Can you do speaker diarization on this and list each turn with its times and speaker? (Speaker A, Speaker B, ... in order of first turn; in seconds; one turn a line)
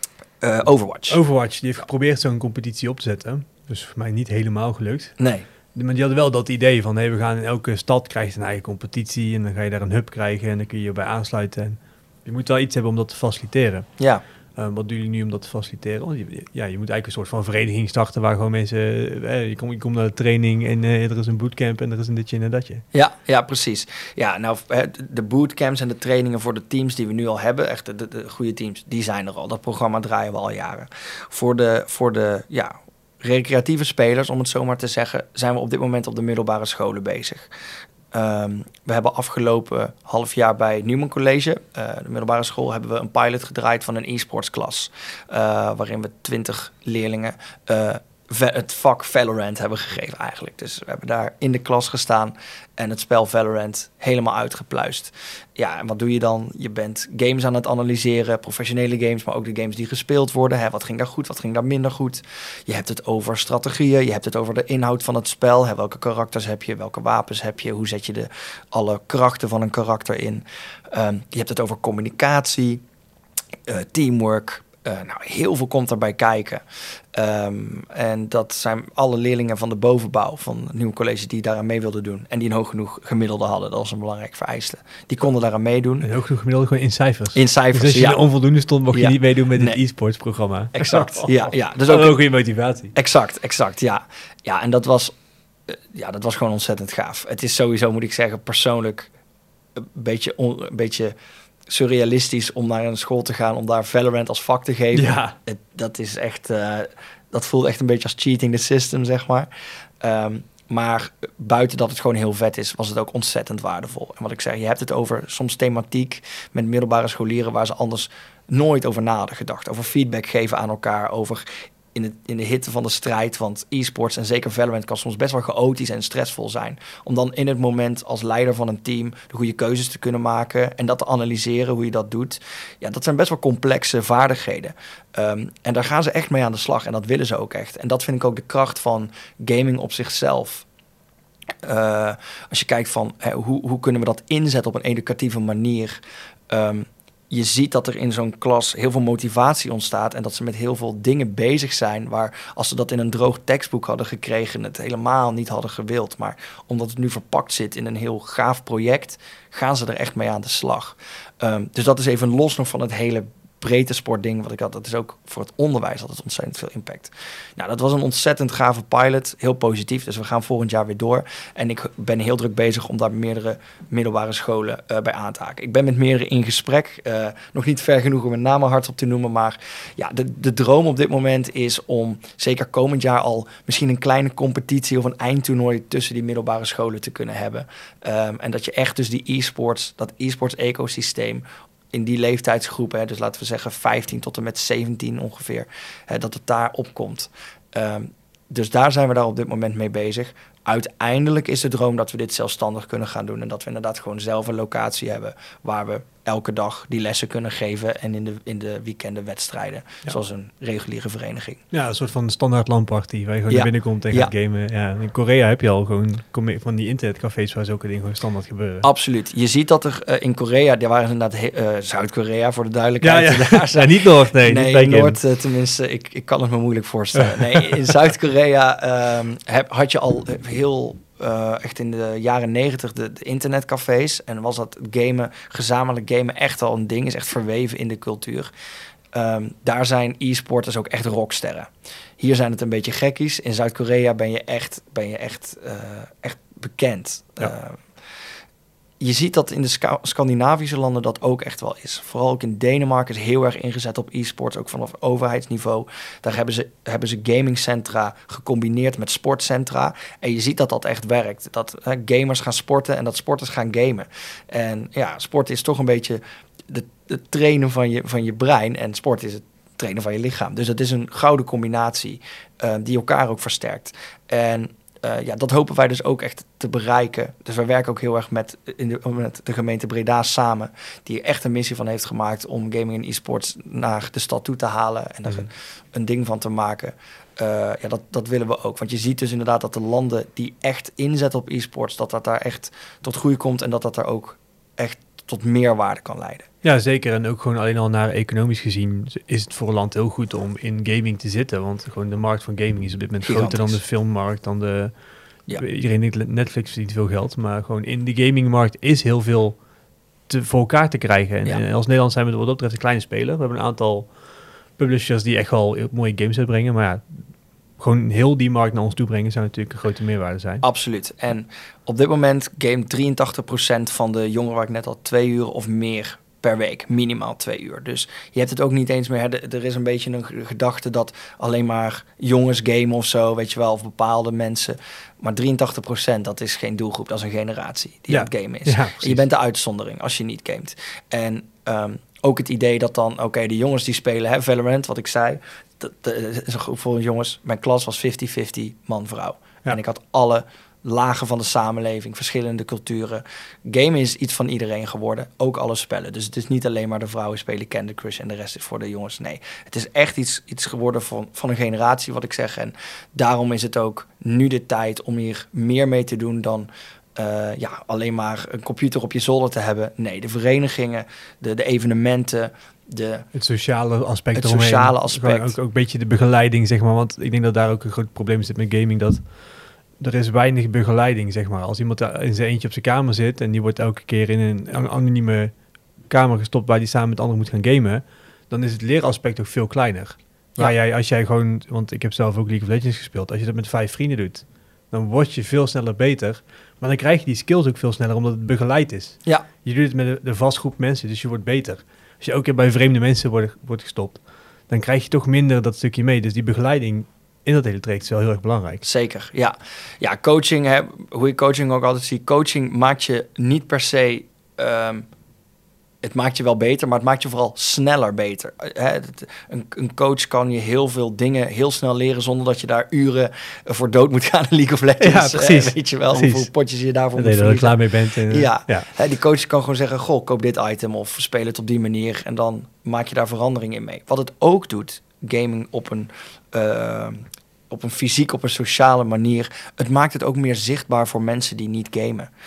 Speaker A: 0.4-1.2
Speaker B: 1.1-22.8
Speaker A: 5.2-5.5
Speaker A: 14.0-14.2
Speaker A: 22.9-37.5
Speaker A: 38.1-72.8
Speaker A: 73.7-86.1
Speaker B: 86.0-92.9
Speaker A: 87.3-88.2
Speaker A: 88.9-89.8
Speaker A: 90.7-92.3
Speaker A: 92.9-95.1
Speaker A: 95.7-99.1
Speaker A: 99.8-101.1
Speaker A: 101.7-109.5
Speaker B: 104.9-105.3
Speaker A: 110.0-140.7
Speaker A: 141.6-146.0
Speaker A: 146.5-211.6
Speaker B: 211.7-218.9
Speaker A: 213.5-214.3
Speaker A: 218.8-238.5
Speaker B: 223.0-225.2
Speaker B: 227.2-227.8
Speaker A: 239.1-247.8
Speaker A: 249.0-296.5
Speaker B: 285.2-285.5
Speaker B: 296.6-309.6
Speaker A: 303.2-303.8
Speaker B: 310.3-317.1
Speaker B: 317.8-320.6
Speaker A: 320.6-373.3
Speaker B: 338.1-339.2
Speaker B: 373.3-408.8
Speaker A: 374.3-375.5
Speaker A: 408.8-415.1
Speaker A: 416.0-442.3
Speaker B: 425.0-426.5
Speaker B: 427.1-428.9